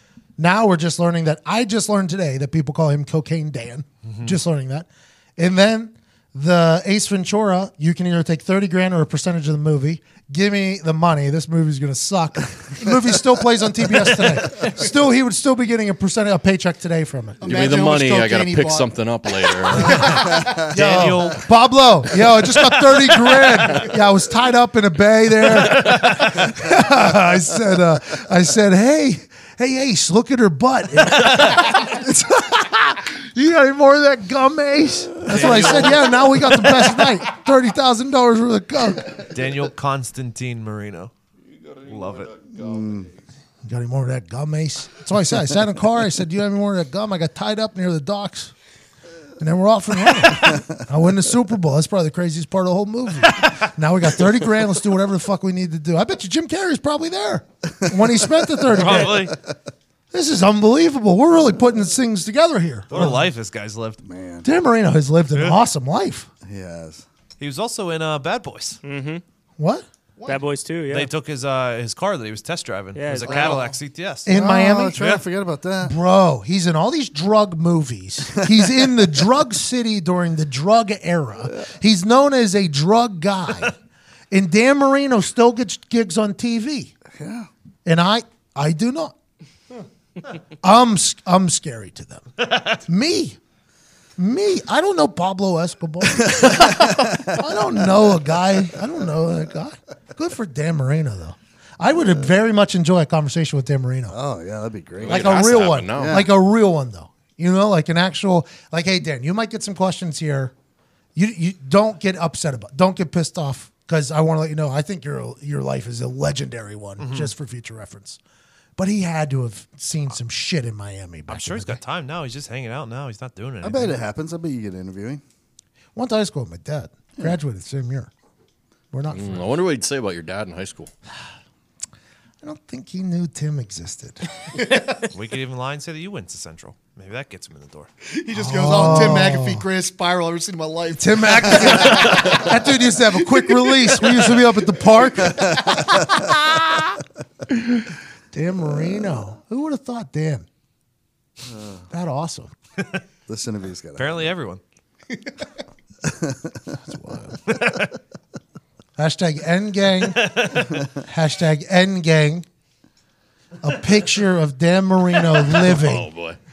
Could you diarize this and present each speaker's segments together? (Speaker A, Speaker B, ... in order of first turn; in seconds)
Speaker A: 0.4-17.5, 19.8-39.2, 43.7-48.5, 49.4-59.3, 60.1-63.3, 64.4-66.3, 69.6-69.8, 74.3-75.1, 75.8-83.7, 84.3-86.9, 87.8-89.2, 90.6-92.3, 92.9-93.4, 94.2-104.2, 105.1-110.5, 111.2-118.2, 118.8-121.8, 126.0-128.1, 128.9-129.5, 132.4-134.3, 138.4-139.6, 140.9-147.0, 147.5-150.5, 151.9-152.5, 156.9-157.4, 159.0-160.3, 161.1-162.4, 163.6-166.1
Speaker B: 4.1-4.3, 20.6-21.4, 25.5-26.5, 31.0-32.0, 35.3-36.4, 39.2-41.1, 41.8-42.5, 58.7-59.4, 62.9-64.0, 67.4-68.8, 70.9-74.5, 75.0-75.2, 92.4-92.8, 117.0-117.3, 121.3-124.0, 135.1-137.9, 154.0-154.6, 157.5-157.9, 160.2-160.8
Speaker C: 17.4-21.1, 70.2-70.5, 138.1-142.6, 143.6-144.1, 145.5-145.8
Speaker D: 17.4-20.2, 105.0-106.3, 129.1-130.9, 165.5-166.4
Speaker E: 42.5-43.1, 58.7-59.2, 64.0-64.5, 66.5-67.0, 73.3-73.6, 74.3-76.0, 87.2-87.5, 96.2-97.3, 104.1-105.2, 105.9-106.3, 123.6-125.2, 153.3-154.2, 156.0-156.5
Speaker F: 68.8-69.2, 70.2-71.1, 73.0-73.7